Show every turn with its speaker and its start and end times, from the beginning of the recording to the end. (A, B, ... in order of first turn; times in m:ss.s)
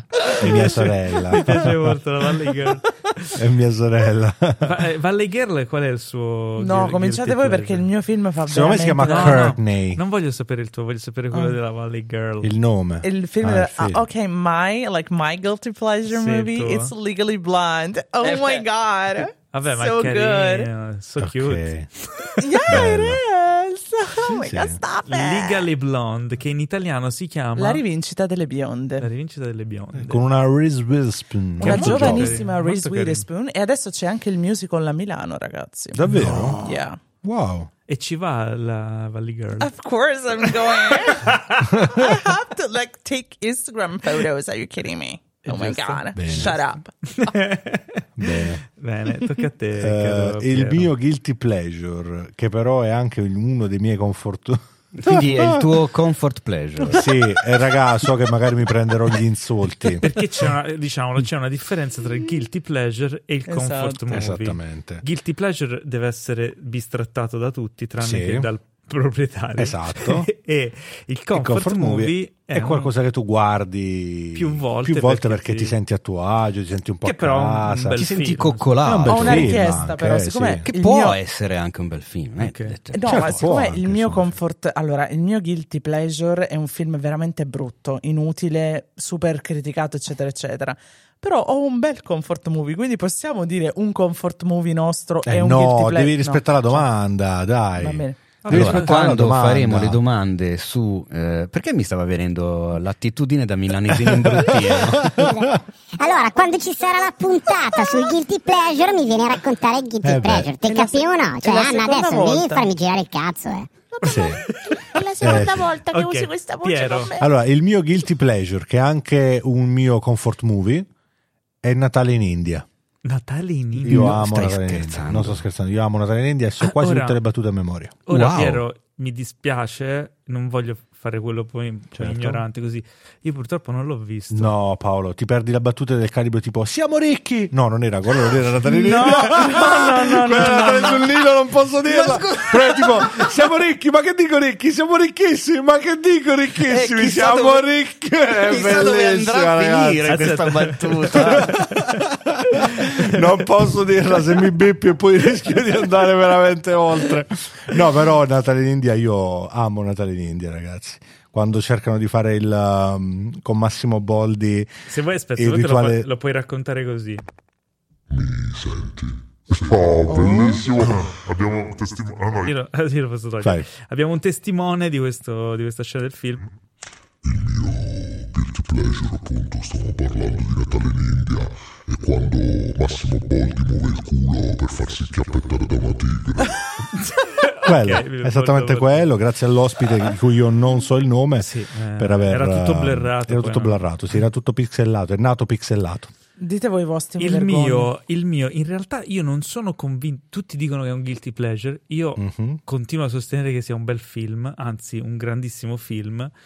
0:00.4-0:02.0 A
0:00.4-0:03.4 B
0:03.4-0:04.8 A
0:04.6-0:07.9 B
0:06.6-0:09.6 C
0:08.5-0:10.0 A
0:09.0-0:12.5 B
0:11.3-0:11.6 C
0:12.4-0:14.1 A
0:13.0-0:20.7 C
0:16.1-0:16.9 B
0:18.2-0:18.7 D
0:19.5-0:22.4 B
0:21.2-0:21.9 A
0:22.4-0:25.7 C
0:22.7-0:23.2 A
0:24.2-0:24.8 A
0:25.1-0:27.8 B
0:27.6-0:29.1 C
0:29.0-0:30.2 B
0:29.9-0:32.4 A
0:31.6-0:37.0 C
0:31.6-0:33.3 B
0:35.9-0:37.7 A
0:36.2-0:36.6 D
0:37.9-0:39.7 B
0:39.6-0:47.0 C
0:41.1-0:41.7 B
0:45.5-0:46.0 D
0:46.1-0:46.6 A
0:47.1-0:50.9 B
0:48.2-0:48.6 A
0:49.8-0:55.7 A
0:55.0-0:57.1 D
0:56.9-1:00.1 A
1:00.0-1:12.9 B
1:03.5-1:04.0 C
1:04.1-1:05.0 A
1:08.0-1:08.5 A
1:09.6-1:10.3 A
1:11.3-1:18.0 A
1:14.4-1:15.8 B
1:17.0-1:18.7 B
1:18.0-1:19.8 D
1:18.8-1:20.6 A
1:19.1-1:21.2 C
1:20.6-1:23.5 D
1:22.4-1:22.8 B
1:22.9-1:36.9 C
1:23.0-1:24.4 A
1:35.2-1:40.0 A
1:37.8-1:38.2 C
1:38.4-1:39.0 B
1:38.5-1:45.2 D
1:43.9-1:45.6 A
1:45.2-1:53.7 E
1:50.0-1:50.5 A
1:50.6-1:52.7 C
1:53.9-1:57.3 C
1:54.0-1:54.4 A
1:55.2-1:55.7 A
1:55.9-1:57.1 B
1:57.2-2:00.9 A
2:01.6-2:02.7 A
2:03.0-2:04.2 B
2:03.8-2:08.0 A
2:03.9-2:05.4 D
2:06.6-2:07.2 B
2:08.1-2:14.5 B
2:08.1-2:08.6 D
2:12.0-2:12.4 A
2:14.3-2:30.3 A
2:18.6-2:21.0 C
2:21.8-2:23.3 D
2:26.6-2:27.7 D
2:28.4-2:31.7 D
2:30.1-2:32.0 B
2:31.1-2:44.7 A
2:32.6-2:33.1 B
2:44.9-2:47.2 B
2:45.4-2:46.1 A
2:48.1-2:52.6 F
2:50.1-2:51.0 A
2:52.5-2:56.5 B
2:57.2-3:06.6 F
3:07.1-3:09.2 B
3:07.6-3:16.1 A
3:11.4-3:13.8 B
3:16.4-3:17.9 C
3:17.2-3:26.3 B
3:22.2-3:22.6 A